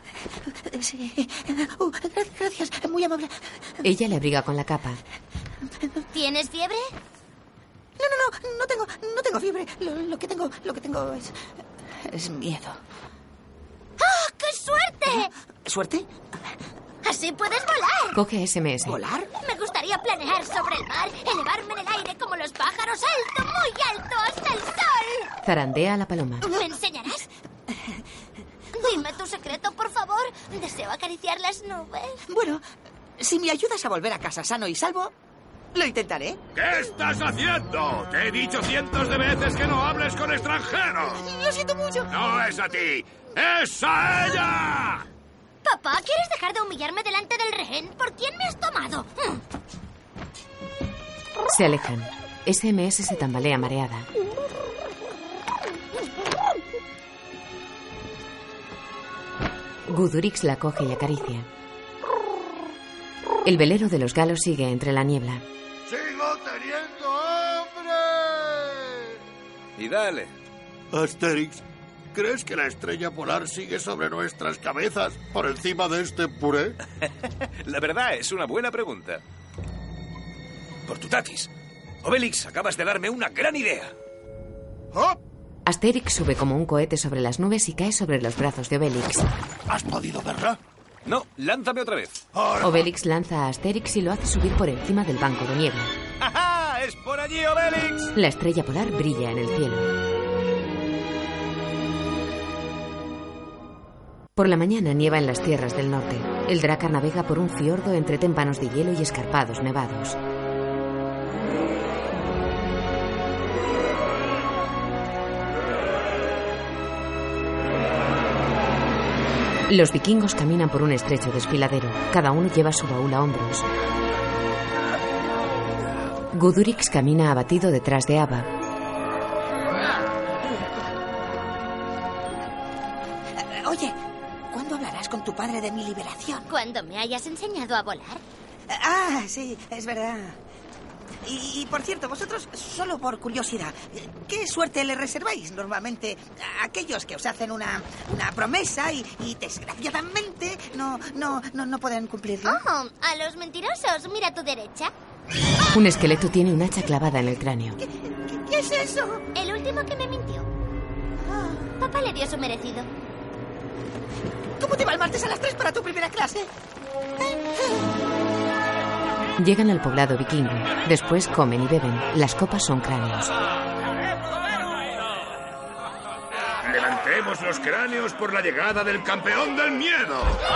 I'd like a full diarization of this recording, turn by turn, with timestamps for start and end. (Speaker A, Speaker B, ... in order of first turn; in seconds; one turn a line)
Speaker A: 0.5-3.4
Speaker B: 3.8-5.0
Speaker C: 6.1-6.9
Speaker A: 8.0-11.3
Speaker A: 12.0-12.8
Speaker C: 14.0-15.3
Speaker A: 15.6-16.1
Speaker C: 17.0-18.2
Speaker B: 18.1-19.0
Speaker A: 18.9-19.3
Speaker C: 19.4-25.3
Speaker B: 25.4-26.5
Speaker C: 26.4-27.2
Speaker C: 28.7-32.2
Speaker A: 32.3-32.6
Speaker A: 33.2-35.1
Speaker A: 35.7-36.4
Speaker D: 36.5-41.2
Speaker A: 41.3-42.1
Speaker D: 42.1-45.0
Speaker C: 45.6-49.4
Speaker B: 51.5-54.1
Speaker B: 59.9-61.5
Speaker B: 63.4-65.4
Speaker E: 65.8-69.1
Speaker F: 69.8-70.3
Speaker E: 70.9-71.6
Speaker E: 72.1-76.8
Speaker F: 77.0-79.2
Speaker F: 80.8-81.5
Speaker F: 82.0-83.9
Speaker B: 85.7-89.3
Speaker E: 89.7-90.6
Speaker F: 91.0-92.2
Speaker E: 92.3-92.8
Speaker B: 92.6-95.9
Speaker F: 96.2-98.1
Speaker B: 98.1-99.9
Speaker B: 104.3-110.2
Speaker B: 119.7-123.7
Speaker B: 126.3-128.5
Speaker A: 133.3-133.9
Speaker A: 134.5-136.4
Speaker C: 136.5-138.2
Speaker A: 138.7-140.4
Speaker A: 141.2-152.6
Speaker C: 152.4-154.9
Speaker B: 155.7-157.8
Speaker A: 157.8-159.2
Speaker C: 159.3-160.5
Speaker A: 161.2-161.7
Speaker C: 161.8-162.9
Speaker A: 164.6-166.5
Speaker B: 169.4-173.3
Speaker D: 176.6-180.5